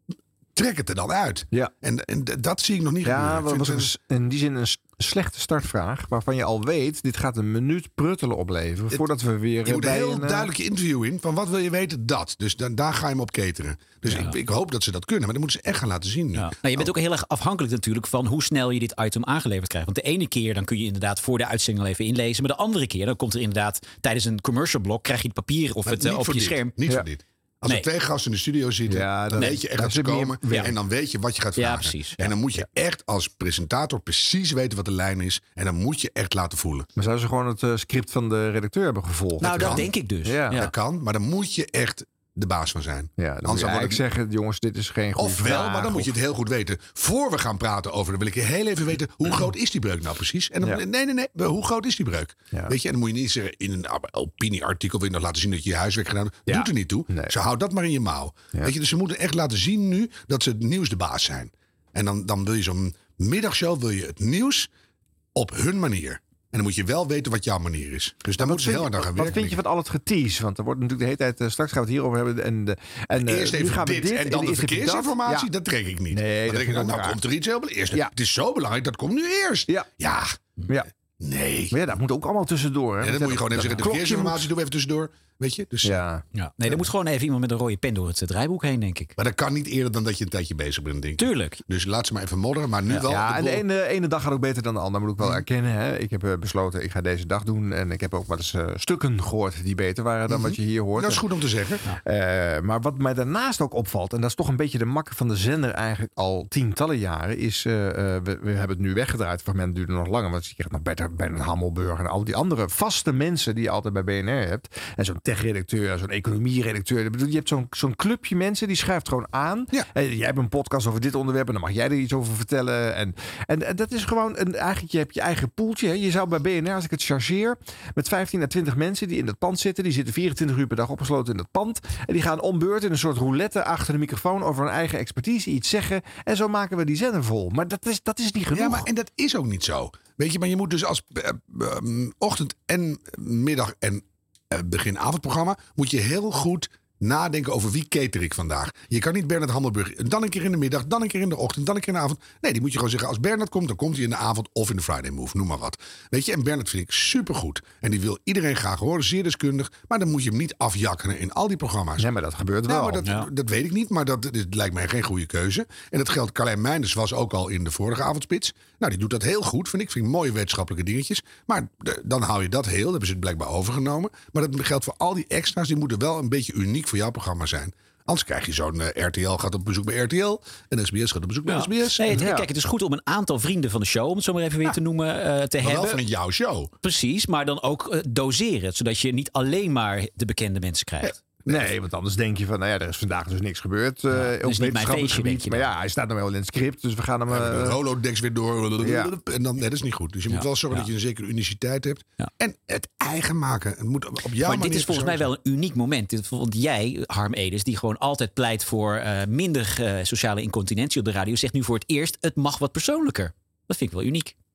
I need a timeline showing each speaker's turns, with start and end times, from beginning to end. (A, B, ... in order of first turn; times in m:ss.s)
0:00.6-0:03.9 A
0:03.0-0:10.5 B
0:09.6-0:16.9 A
0:14.1-0:14.4 C
0:16.4-0:26.8 C
0:25.9-0:36.9 A
0:28.9-0:30.7 B
0:29.4-0:29.7 C
0:30.5-0:30.7 C
0:31.6-0:32.4 C
0:37.0-0:40.6 B
0:39.4-0:40.7 C
0:39.5-0:39.9 A
0:40.5-0:44.0 A
0:43.2-0:46.1 B
0:45.2-1:04.7 A
0:56.5-0:57.4 B
1:05.4-1:09.6 A
1:08.4-1:15.5 B
1:13.3-1:20.5 A
1:16.1-1:17.2 B
1:21.2-1:21.8 A
1:21.7-1:24.5 B
1:23.0-1:26.0 A
1:25.8-1:26.2 B
1:26.4-1:29.1 C
1:29.2-1:33.6 A
1:31.2-1:31.6 C
1:33.0-1:41.2 B
1:40.3-1:41.8 A
1:42.0-2:18.9 B
2:18.5-2:42.1 A
2:42.0-2:43.1 B
2:42.7-3:02.2 A
2:43.0-2:43.3 C
3:01.5-3:06.0 C
3:02.1-3:02.5 B
3:05.6-3:06.7 A
3:06.8-3:11.2 C
3:11.4-3:11.7 A
3:11.5-3:17.8 B
3:14.1-3:15.7 C
3:17.3-3:25.3 A
3:18.8-3:19.1 B
3:20.3-3:20.9 C
3:24.4-3:34.4 C